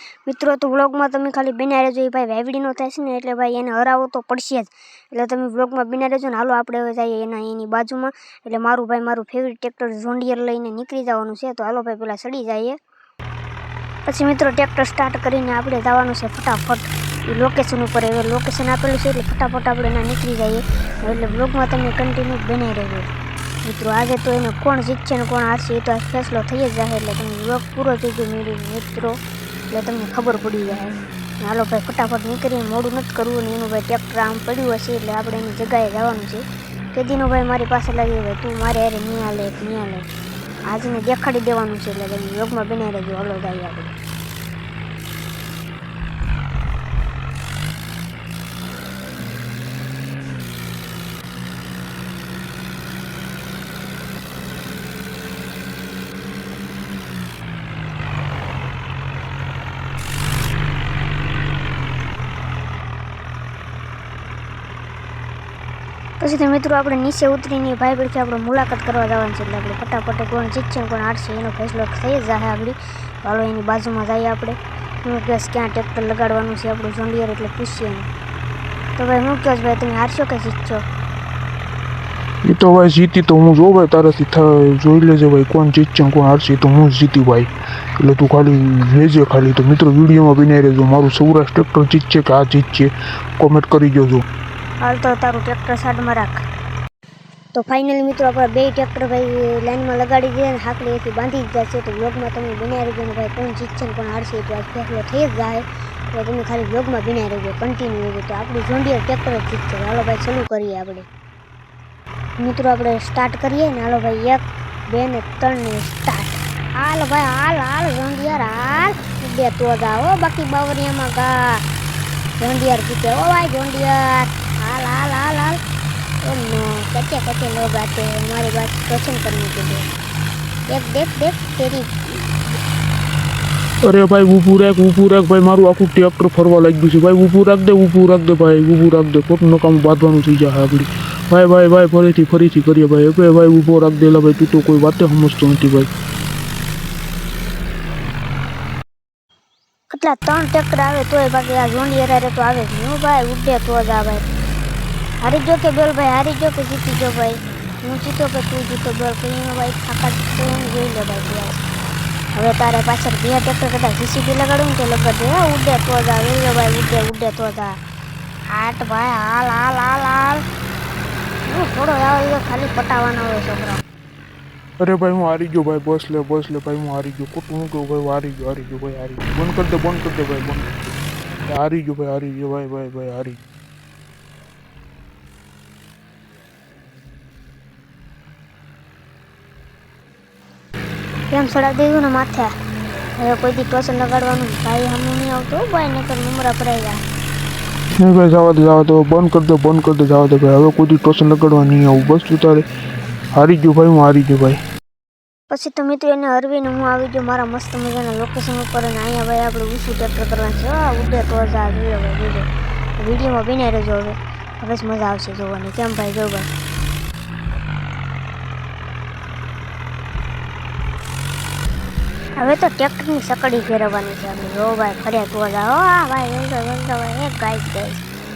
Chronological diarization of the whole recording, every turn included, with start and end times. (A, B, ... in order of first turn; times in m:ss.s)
0:00.2-0:12.8 A
0:14.0-0:23.1 A
0:23.6-0:29.2 A
0:29.7-0:40.1 A
0:40.7-0:44.0 A
1:06.2-1:18.1 A
1:19.0-1:20.8 A
1:22.4-1:34.2 B
1:34.8-1:36.4 A
1:37.5-1:51.1 A
1:52.4-2:01.6 A
2:02.4-2:05.6 A
2:06.2-2:09.9 A
2:10.7-2:12.3 A
2:13.8-2:25.9 B
2:29.9-2:34.2 A
2:35.2-2:41.7 A
2:42.3-2:47.8 A
2:48.5-2:50.4 A
2:51.4-2:53.8 A
2:54.8-3:00.7 B
3:01.5-3:03.4 B
3:11.3-3:12.5 A
3:13.2-3:17.0 A
3:18.0-3:22.6 B
3:23.3-3:24.6 B
3:25.5-3:32.5 A
3:33.0-3:36.5 A
3:42.4-3:48.0 A